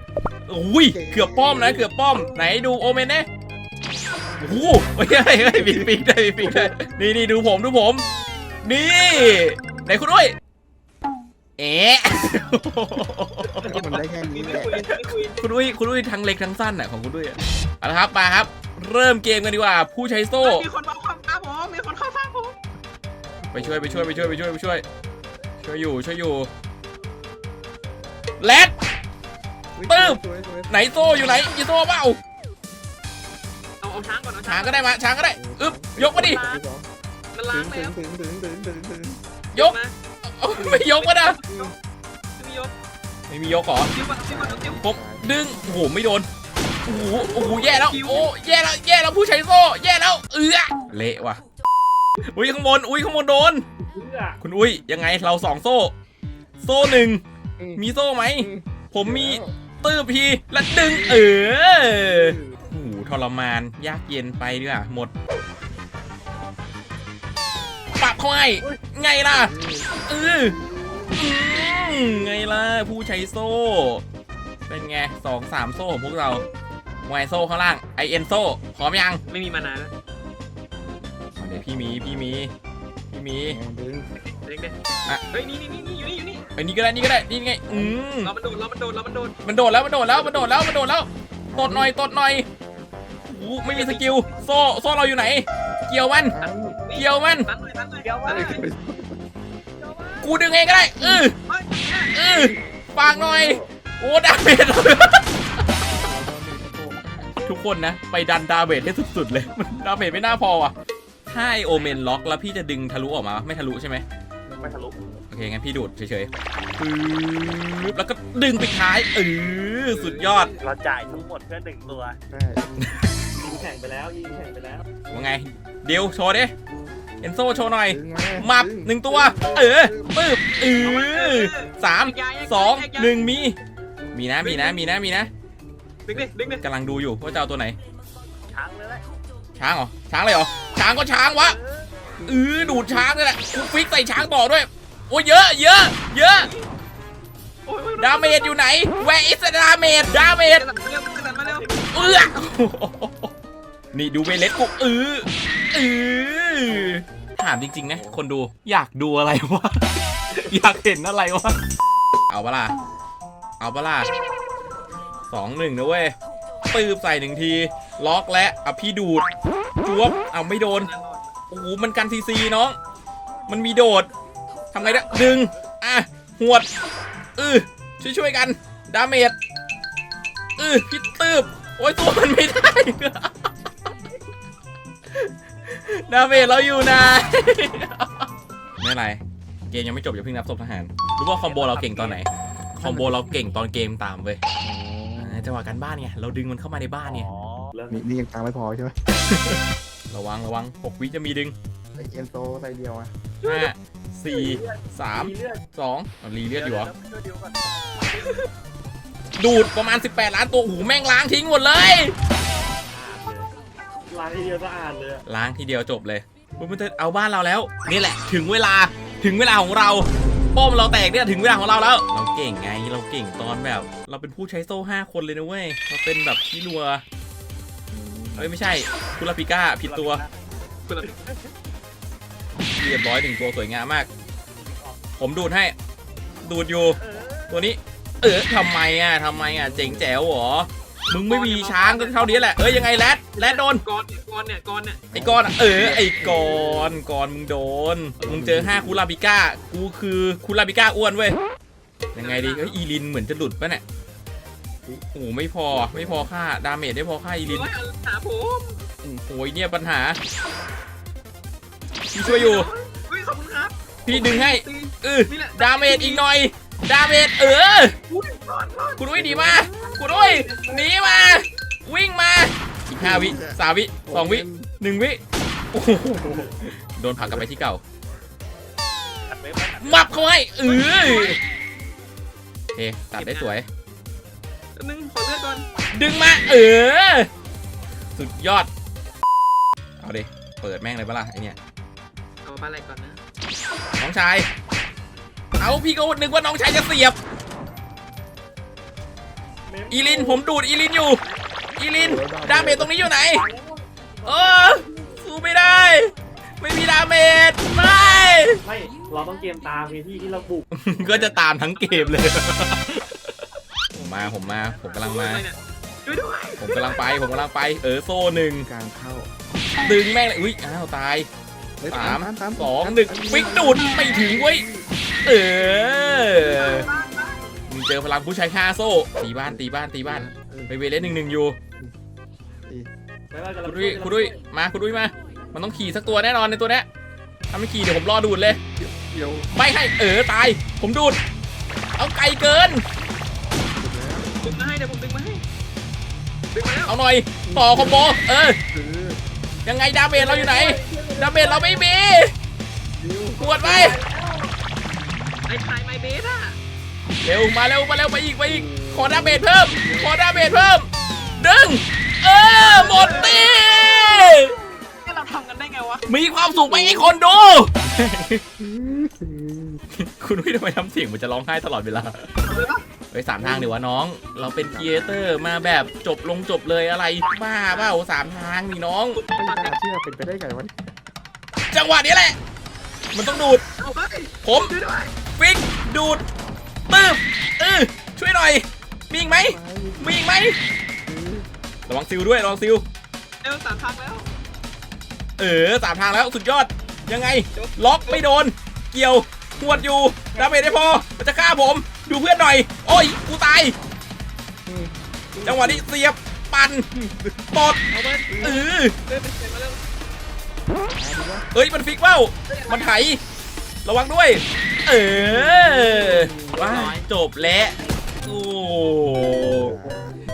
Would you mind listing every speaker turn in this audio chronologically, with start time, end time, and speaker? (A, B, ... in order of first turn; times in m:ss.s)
0:00.5-0:03.3 A
0:00.9-0:01.9 B
0:04.4-0:08.0 A
0:05.2-0:06.7 B
0:08.6-0:10.4 A
0:11.6-0:13.8 A
0:13.6-0:15.4 C
0:13.6-0:14.8 B
0:15.3-0:20.7 A
0:20.4-0:22.6 C
0:23.4-0:24.5 B
0:23.5-0:24.8 A
0:25.6-0:26.5 A
0:28.4-0:28.7 A
0:29.8-0:31.5 B
0:29.9-0:32.2 A
0:33.8-0:34.9 C
0:34.5-0:36.4 A
0:35.4-0:36.9 B
0:36.1-0:36.6 C
0:37.3-0:38.0 C
0:37.5-0:39.2 B
0:39.5-0:41.4 A
0:39.6-0:40.0 C
0:40.8-0:41.8 C
0:42.4-0:42.7 C
0:43.3-0:43.9 A
0:43.9-0:44.8 C
0:44.3-0:45.2 B
0:44.8-0:46.3 A
0:46.9-0:51.4 A
0:47.6-0:48.3 C
0:52.2-0:53.6 A
0:53.8-0:54.4 D
0:54.4-0:55.9 A
0:56.6-0:57.2 A
0:57.6-0:57.8 B
0:57.8-1:05.1 A
0:58.4-0:59.5 B
1:01.9-1:02.5 B
1:08.0-1:09.5 A
1:09.3-1:10.0 B
1:10.1-1:10.6 A
1:11.2-1:14.0 A
1:14.7-1:16.4 A
1:17.1-1:19.2 A
1:19.3-1:19.9 C
1:21.4-1:22.2 B
1:21.4-1:22.5 A
1:23.1-1:23.6 A
1:23.4-1:24.1 B
1:24.4-1:24.7 C
1:25.3-1:26.5 C
1:26.6-1:28.3 A
1:27.7-1:28.0 B
1:28.2-1:29.4 C
1:29.4-1:32.5 A
1:31.5-1:31.9 B
1:33.3-1:36.4 A
1:33.7-1:34.3 C
1:36.3-1:36.8 B
1:36.4-1:38.6 C
1:37.0-1:37.5 A
1:38.0-1:38.6 D
1:38.3-1:39.2 B
1:39.8-1:40.3 C
1:40.2-1:41.4 A
1:41.4-1:42.2 C
1:42.1-1:45.4 A
1:42.3-1:43.6 B
1:45.9-1:47.3 B
1:47.4-1:50.7 A
1:51.3-1:54.0 A
1:51.7-1:52.0 C
1:54.5-1:55.1 B
1:54.6-1:55.1 D
1:55.3-2:00.5 A
1:59.9-2:00.7 C
2:00.6-2:02.2 D
2:02.3-2:02.9 B
2:02.8-2:03.1 A
2:03.4-2:04.9 D
2:05.1-2:06.5 A
2:07.2-2:13.6 A
2:07.9-2:10.2 B
2:10.8-2:13.2 C
2:14.1-2:15.3 A
2:14.4-2:15.0 C
2:16.1-2:16.7 C
2:16.1-2:17.8 A
2:18.5-2:19.1 D
2:19.6-2:21.6 A
2:21.4-2:21.8 C
2:22.2-2:23.1 B
2:22.2-2:26.5 A
2:26.3-2:26.7 C
2:27.6-2:28.6 C
2:28.0-2:30.6 A
2:30.1-2:32.3 C
2:31.4-2:32.3 D
2:31.9-2:33.3 A
2:33.9-2:41.6 A
2:37.9-2:38.2 B
2:42.3-2:42.8 A
2:43.6-2:44.1 A
2:45.3-2:46.1 A
2:46.7-2:49.3 A
2:49.8-2:50.9 A
2:50.6-2:51.4 C
2:51.5-2:52.8 A
2:53.5-2:54.1 A
2:54.7-2:56.7 A
2:54.8-2:55.4 C
2:57.4-2:59.4 A
3:00.6-3:03.5 A
3:05.1-3:08.3 A
3:08.8-3:14.4 A
3:11.4-3:12.2 D
3:12.8-3:13.3 B
3:14.6-3:15.6 B
3:15.2-3:17.3 A
3:17.0-3:18.1 D
3:17.9-3:19.0 B
3:20.1-3:21.6 A
3:22.0-3:23.1 B
3:23.4-3:23.7 C
3:23.4-3:26.9 A
3:24.3-3:25.6 D
3:26.5-3:27.6 D
3:28.1-3:28.5 C
3:29.4-3:32.2 A
3:32.6-3:33.5 D
3:34.1-3:35.2 D
3:35.3-3:47.0 A
3:47.9-3:48.5 B
3:48.4-3:50.2 A
3:49.8-3:50.3 D
3:50.9-3:51.1 C
3:51.0-3:51.4 D
3:52.8-3:54.1 A
3:54.6-3:55.0 D
3:55.2-3:55.8 A
3:56.4-3:57.0 A
3:57.0-3:57.6 D
3:57.5-4:03.8 A
3:59.5-4:00.1 B
4:01.3-4:02.8 C
4:03.3-4:05.0 C
4:05.1-4:07.0 B
4:05.1-4:11.4 A
4:08.2-4:09.0 B
4:12.1-4:13.8 A
4:12.2-4:12.8 C
4:15.1-4:17.7 A
4:15.7-4:16.3 B
4:17.4-4:18.9 C
4:19.0-4:20.2 A
4:22.1-4:22.7 A
4:22.2-4:26.2 C
4:24.1-4:28.0 A
4:28.1-4:31.4 C
4:29.0-4:35.2 A
4:29.2-4:29.7 B
4:33.0-4:34.7 B
4:35.7-4:37.8 A
4:36.0-4:36.5 B
4:37.2-4:37.5 B
4:39.3-4:40.2 D
4:39.8-4:41.4 A
4:40.7-4:41.3 C
4:42.8-4:43.7 A
4:43.2-4:43.6 C
4:44.8-4:45.7 C
4:45.9-4:47.3 A
4:48.2-4:48.7 A
4:50.0-4:51.6 A
4:52.4-4:53.2 C
4:54.0-4:54.5 A
4:55.6-4:57.2 A
4:59.7-5:00.4 D
4:59.9-5:01.2 A
5:01.1-5:01.4 C
5:01.8-5:03.4 A
5:02.0-5:03.1 B
5:03.3-5:03.8 D
5:04.2-5:08.6 A
5:08.6-5:10.7 D
5:10.7-5:13.3 A
5:11.8-5:12.3 C
5:14.0-5:15.5 A
5:14.0-5:15.1 D
5:14.9-5:17.4 C
5:16.6-5:18.7 A
5:18.6-5:19.3 B
5:19.8-5:21.3 A
5:21.8-5:24.9 B
5:21.9-5:24.6 A
5:25.2-5:26.9 A
5:25.5-5:26.9 B
5:26.4-5:27.4 C
5:27.7-5:31.6 A
5:29.4-5:31.2 B
5:33.3-5:34.4 D
5:33.7-5:36.9 A
5:37.5-5:38.6 A
5:38.4-5:39.5 B
5:39.5-5:41.2 A
5:42.0-5:42.8 A
5:43.8-5:44.4 B
5:44.4-5:45.4 C
5:46.5-5:47.0 C
5:46.8-5:48.6 A
5:47.4-5:48.2 B
5:48.7-5:49.2 B
5:49.6-5:52.3 A
5:50.3-5:51.6 D
5:53.0-5:54.0 B
5:53.4-5:54.0 A
5:53.6-5:54.5 D
5:55.5-5:56.6 C
5:57.2-6:00.9 A
5:58.4-6:00.8 B
6:01.4-6:04.5 A
6:02.6-6:04.4 C
6:02.9-6:03.5 B
6:05.0-6:06.0 C
6:06.1-6:08.4 A
6:06.7-6:07.1 B
6:08.6-6:09.8 B
6:10.0-6:12.3 A
6:12.4-6:12.8 C
6:13.1-6:19.2 A
6:13.4-6:13.8 B
6:14.6-6:15.2 B
6:17.7-6:18.0 C
6:19.2-6:19.8 C
6:19.4-6:20.7 B
6:21.7-6:22.4 A
6:23.1-6:23.6 A
6:23.8-6:25.1 C
6:24.4-6:24.8 A
6:25.4-6:26.2 A
6:26.9-6:30.6 A
6:29.1-6:30.2 B
6:31.0-6:31.5 B
6:31.9-6:32.8 A
6:33.4-6:34.3 C
6:35.4-6:43.8 A
6:37.5-6:38.2 C
6:39.6-6:39.9 B
6:44.7-6:45.9 B
6:45.4-6:46.9 A
6:46.9-6:47.3 B
6:47.5-6:47.8 A
6:47.9-6:49.8 C
6:48.3-6:48.7 B
6:48.4-6:49.0 A
6:50.9-6:51.5 B
6:51.5-6:53.2 A
6:52.5-6:53.0 C
6:53.8-6:59.7 A
6:55.1-6:56.9 B
6:56.5-6:57.0 C
6:59.5-7:00.0 B